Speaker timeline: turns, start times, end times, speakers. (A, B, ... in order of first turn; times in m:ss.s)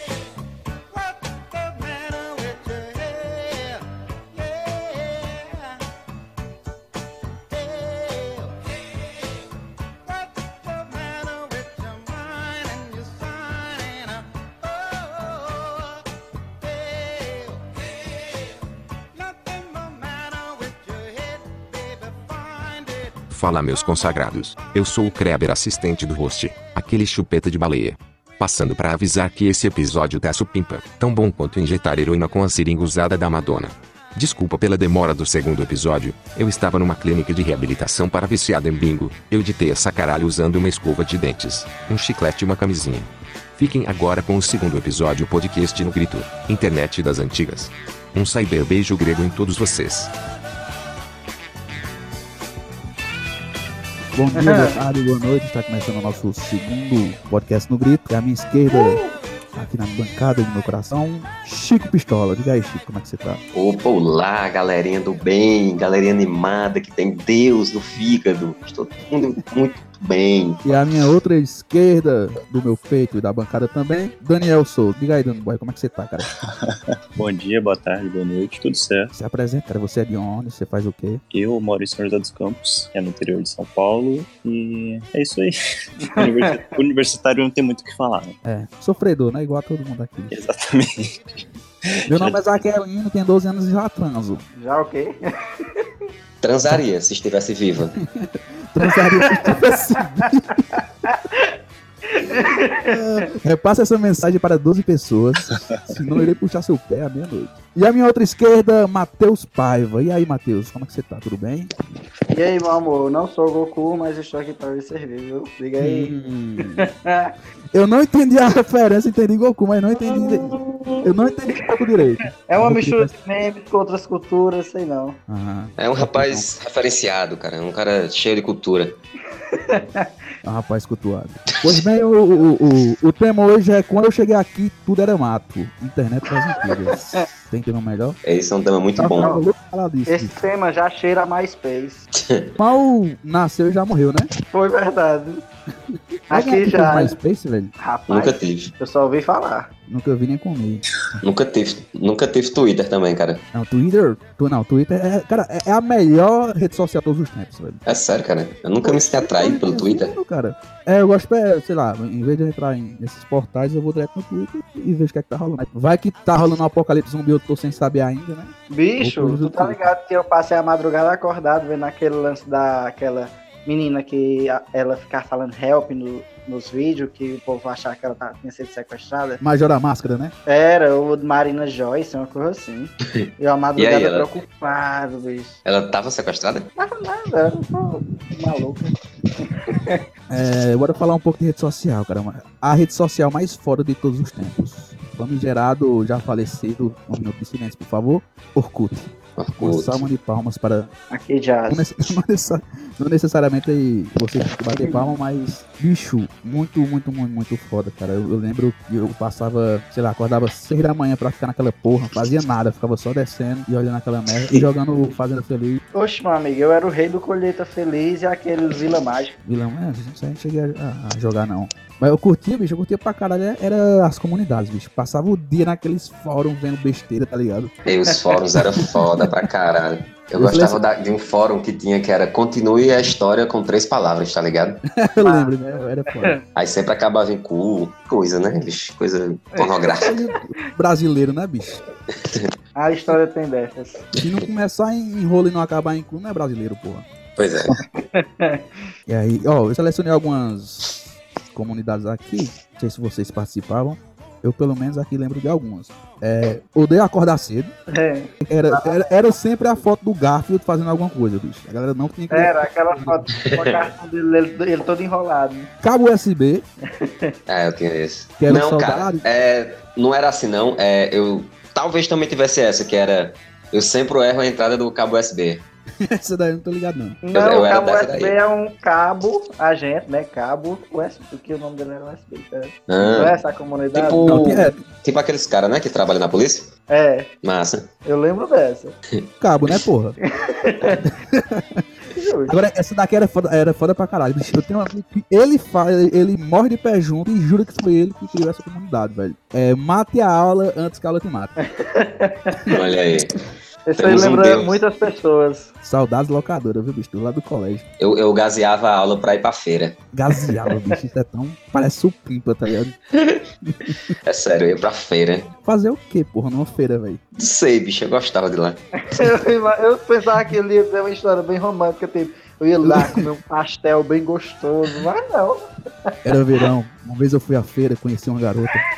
0:01.4-0:03.8 A
0:04.4-0:05.6 A
0:07.6-0:08.7 A
0:10.6-0:14.2 A
0:14.8-0:15.6 A
0:16.9-0:17.6 A
0:19.4-0:22.8 A
0:23.3-0:50.1 B
0:54.1-0:59.0 C
0:54.3-0:54.8 A
0:58.7-0:59.1 A
0:59.5-1:03.4 C
1:03.5-1:10.7 D
1:10.6-1:16.3 C
1:16.7-1:19.1 E
1:19.1-1:21.2 C
1:21.3-1:28.4 E
1:28.4-1:30.4 C
1:30.3-1:32.3 E
1:32.1-1:34.4 C
1:34.6-1:35.9 A
1:36.4-1:38.0 D
1:38.0-1:40.8 C
1:38.9-1:40.3 A
1:41.0-1:41.5 A
1:42.1-1:43.3 A
1:42.9-1:51.7 C
1:52.3-1:57.4 A
1:55.8-1:56.9 C
1:57.7-2:03.1 C
1:59.9-2:01.6 A
2:02.4-2:05.2 A
2:05.3-2:06.5 C
2:05.8-2:09.0 D
2:09.4-2:10.1 A
2:10.4-2:18.2 C
2:11.5-2:11.8 D
2:16.5-2:17.2 A
2:18.2-2:19.4 D
2:19.0-2:20.4 C
2:20.1-2:22.0 A
2:22.1-2:22.6 D
2:22.6-2:24.3 C
2:24.5-2:25.4 A
2:26.3-2:27.7 C
2:26.3-2:27.2 A
2:27.8-2:29.7 A
2:28.1-2:28.7 D
2:29.9-2:30.8 C
2:31.2-2:33.4 D
2:33.5-2:37.8 C
2:37.8-2:40.1 D
2:38.8-2:49.8 C
2:48.7-2:59.4 A
2:59.4-3:00.3 C
3:00.5-3:05.6 A
3:03.8-3:04.3 D
3:05.6-3:06.7 D
3:06.8-3:10.0 A
3:10.3-3:20.9 C
3:19.4-3:20.1 D
3:21.1-3:21.9 A
3:21.7-3:35.8 C
3:24.7-3:25.0 A
3:35.9-3:39.3 A
3:39.4-3:47.7 C
3:47.8-3:54.8 D
3:50.4-3:50.8 C
3:54.9-3:56.4 C
3:55.2-3:55.5 A
3:56.1-3:56.4 A
3:56.5-4:00.2 D
3:59.6-3:59.9 A
4:00.0-4:01.8 C
4:02.2-4:02.5 D
4:02.8-4:04.0 A
4:04.2-4:04.4 D
4:04.2-4:07.1 C
4:07.4-4:07.8 D
4:08.0-4:08.7 A
4:09.1-4:11.0 C
4:11.5-4:17.7 C
4:17.9-4:19.1 A
4:18.4-4:23.2 C
4:22.3-4:25.7 A
4:23.3-4:23.8 D
4:25.8-4:26.6 C
4:26.9-4:27.3 A
4:27.5-4:35.6 D
4:28.4-4:29.2 C
4:36.0-4:37.2 C
4:37.2-4:44.2 A
4:37.3-4:38.3 D
4:42.9-4:43.4 D
4:43.9-4:46.7 D
4:44.2-4:44.8 C
4:46.9-4:47.3 A
4:47.4-4:47.9 D
4:48.0-4:49.0 A
4:49.1-4:49.8 D
4:49.4-4:50.2 C
4:50.4-4:51.1 A
4:51.1-4:51.8 C
4:52.1-4:52.6 A
4:52.5-5:01.5 C
5:01.6-5:02.8 A
5:02.7-5:03.3 D
5:03.9-5:05.7 A
5:04.0-5:04.8 D
5:05.8-5:07.8 C
5:08.0-5:10.0 D
5:10.1-5:13.0 C
5:10.3-5:10.9 A
5:13.6-5:14.1 C
5:14.2-5:15.5 D
5:15.6-5:17.2 C
5:17.4-5:19.2 D
5:19.0-5:26.1 A
5:22.8-5:23.2 C
5:26.2-5:28.8 C